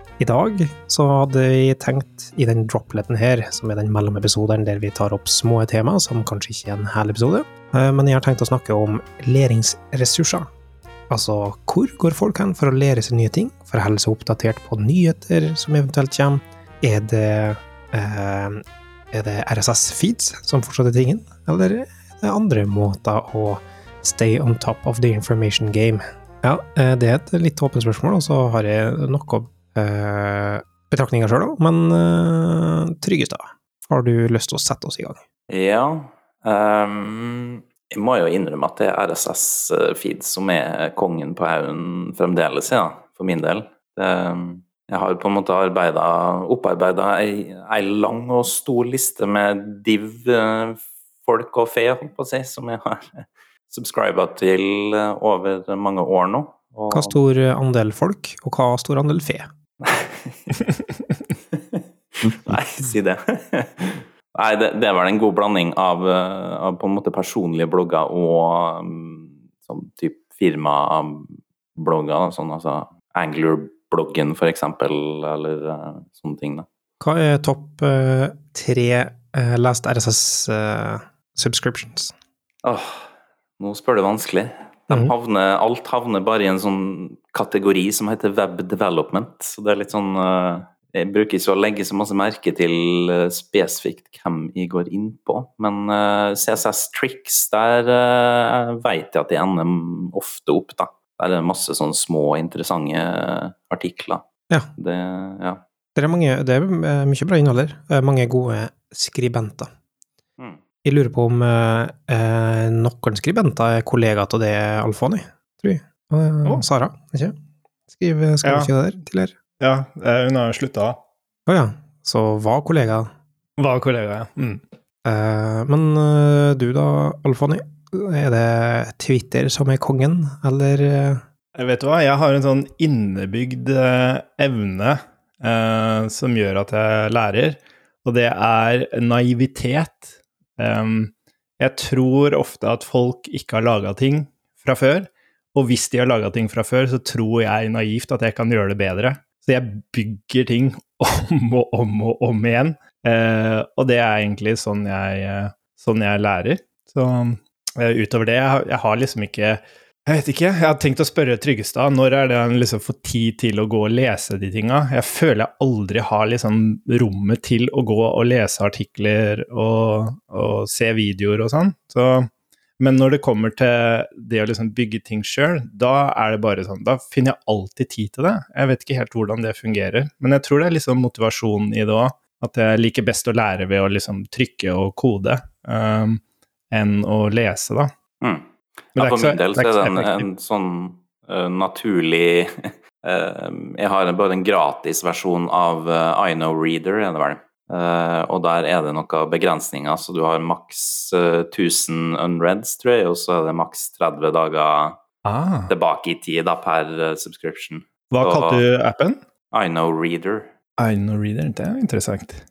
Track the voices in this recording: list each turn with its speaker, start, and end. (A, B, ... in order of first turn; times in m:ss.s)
0:00.2-0:10.5 A
0:11.1-0:35.2 A
0:35.5-0:57.2 B
0:56.9-0:59.5 A
0:59.8-1:00.5 B
1:01.5-1:16.7 B
1:17.0-1:22.1 A
1:22.6-1:23.0 B
1:23.6-1:44.2 B
1:44.8-1:45.6 B
1:46.0-1:49.7 A
1:50.8-1:57.4 A
1:57.9-1:59.3 A
1:58.4-1:58.7 C
1:59.6-2:01.0 C
2:01.5-2:03.1 A
2:03.6-2:04.6 C
2:05.1-2:11.2 A
2:11.6-3:07.9 C
3:08.2-3:25.0 B
3:09.0-3:10.3 C
3:25.2-3:25.7 C
3:25.7-3:28.6 B
3:28.1-3:29.2 C
3:29.5-3:30.5 B
3:30.8-3:32.4 C